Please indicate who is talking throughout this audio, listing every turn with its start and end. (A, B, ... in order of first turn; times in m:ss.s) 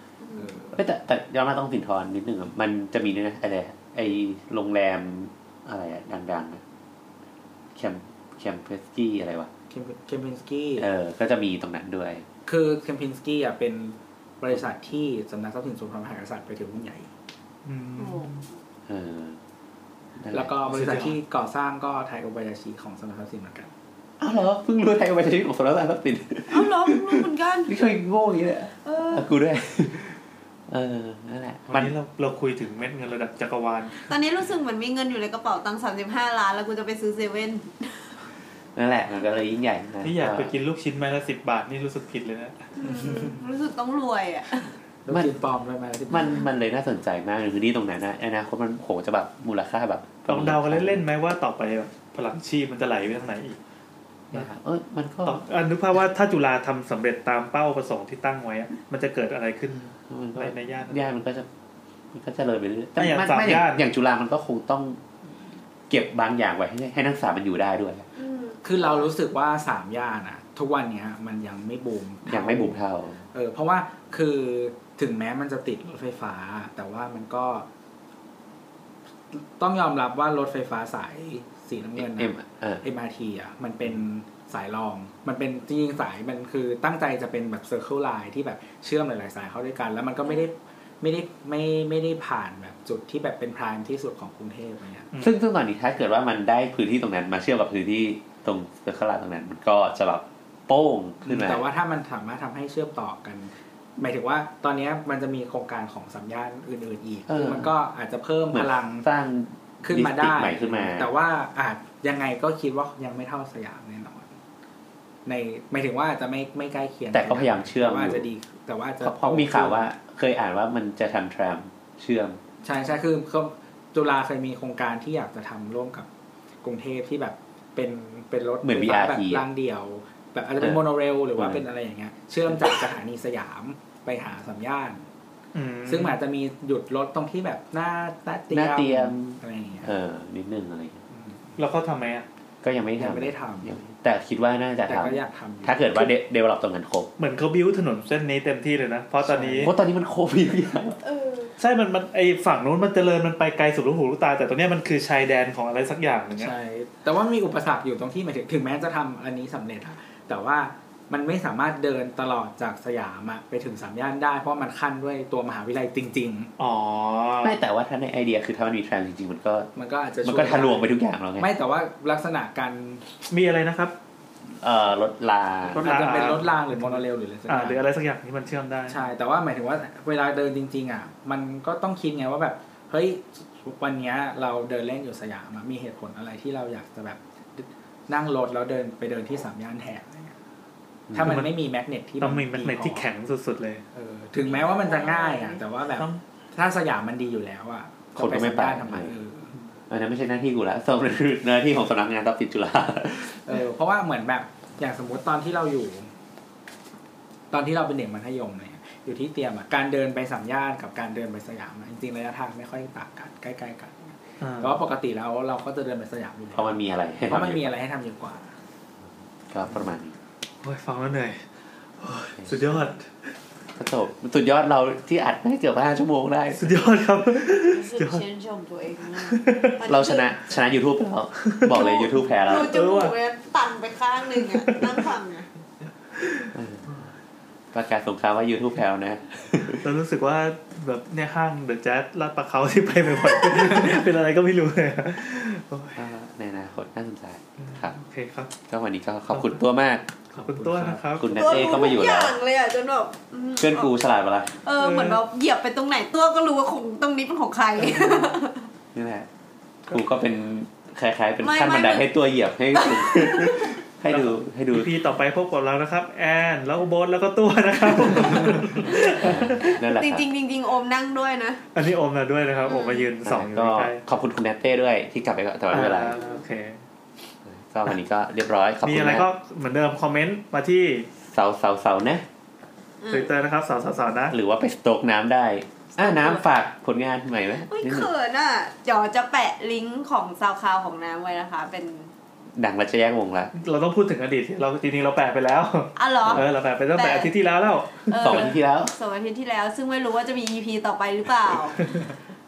0:00.2-0:00.5 A
0:00.4-0:00.7 B
0:00.7-0:06.6 C
0:07.7-0:09.5 C
0:09.7-0:10.9 B
0:10.8-0:12.2 C
0:12.5-0:17.1 B
0:17.6-0:18.4 D
0:18.0-0:18.3 A
0:18.9-0:19.4 C
0:20.2-0:20.5 C
0:20.3-0:23.7 B
0:20.6-0:21.2 D
0:24.2-0:30.2 C
0:26.5-0:27.7 A
0:28.8-0:29.3 A
0:30.7-0:31.9 C
0:31.7-0:34.1 D
0:34.0-0:38.1 A
0:38.8-0:40.5 C
0:40.0-0:42.7 D
0:42.8-0:44.7 A
0:45.0-0:46.4 B
0:45.1-0:45.3 C
0:46.1-0:51.0 C
0:50.3-0:53.6 D
0:54.3-0:55.4 C
0:55.2-1:01.1 D
1:00.1-1:01.5 C
1:02.1-1:05.0 C
1:03.0-1:03.8 D
1:05.9-1:08.1 C
1:08.2-1:09.1 A
1:08.6-1:12.8 B
1:12.2-1:13.2 C
1:13.3-1:17.6 B
1:19.3-1:35.1 B
1:22.0-1:22.8 C
1:35.2-1:41.6 C
1:41.2-1:49.1 B
1:47.3-1:47.7 C
1:48.5-1:51.1 C
1:49.8-1:54.3 B
1:55.2-1:59.9 B
1:57.1-1:58.3 C
1:59.0-2:02.4 C
2:02.6-2:06.1 B
2:06.6-2:15.0 B
2:08.6-2:09.4 C
2:11.4-2:11.6 C
2:15.5-2:16.1 D
2:15.8-2:19.9 B
2:18.5-2:21.0 C
2:21.1-2:21.6 B
2:21.6-2:22.2 D
2:22.6-2:27.1 C
2:23.0-2:23.7 B
2:24.8-2:26.1 B
2:27.2-2:29.7 D
2:29.2-2:29.7 B
2:29.6-2:31.0 C
2:31.0-2:31.5 A
2:31.6-2:36.5 D
2:36.4-2:46.5 B
2:46.6-2:47.6 D
2:47.4-2:49.7 C
2:49.8-2:53.0 B
2:50.2-2:51.5 C
2:53.3-2:53.9 D
2:54.6-2:55.9 C
2:55.7-2:59.0 D
2:55.7-2:57.8 B
2:58.9-3:10.4 B
3:11.1-3:11.4 C
3:11.1-3:13.1 B
3:11.2-3:11.5 D
3:12.2-3:13.8 D
3:13.9-3:19.5 B
3:14.4-3:15.6 A
3:16.0-3:16.2 D
3:18.2-3:19.1 C
3:19.9-3:23.6 C
3:23.5-3:26.1 B
3:27.5-3:38.5 B
3:34.4-3:34.8 D
3:36.5-3:37.7 C
3:39.5-3:40.1 C
3:40.6-3:41.4 D
3:42.0-3:43.3 D
3:42.4-3:42.7 C
3:43.8-3:46.8 C
3:46.6-3:48.2 D
3:47.5-3:50.3 A
3:49.2-3:49.8 D
3:49.8-3:52.7 C
3:51.4-3:51.9 D
3:51.7-3:55.5 A
3:52.6-3:53.1 D
3:54.3-3:55.1 D
3:56.1-3:57.1 D
3:56.5-3:57.0 C
3:57.7-3:59.9 C
3:59.8-4:06.0 D
4:06.0-4:08.0 C
4:07.6-4:08.5 D
4:08.6-4:10.0 C
4:09.3-4:09.6 D
4:10.3-4:11.8 D
4:10.4-4:11.1 B
4:11.2-4:12.4 C
4:11.3-4:13.9 A
4:13.6-4:14.5 C
4:14.5-4:18.7 A
4:14.8-4:15.2 D
4:18.9-4:19.3 C
4:19.9-4:24.9 C
4:21.4-4:22.1 A
4:22.7-4:23.8 A
4:24.1-4:29.6 D
4:28.8-4:31.6 A
4:29.1-4:30.2 C
4:31.7-4:34.0 D
4:32.6-4:33.1 A
4:33.2-4:36.2 C
4:35.7-4:36.8 D
4:36.1-4:36.4 A
4:37.4-4:39.3 C
4:38.8-4:41.1 D
4:41.2-4:42.2 C
4:43.0-4:43.3 A
4:43.1-4:44.3 D
4:44.3-4:48.1 C
4:46.0-4:46.4 A
4:47.7-4:52.1 A
4:52.5-4:53.5 C
4:53.5-4:58.5 D
4:56.0-4:57.3 A
4:58.1-5:01.9 A
4:58.2-4:58.9 C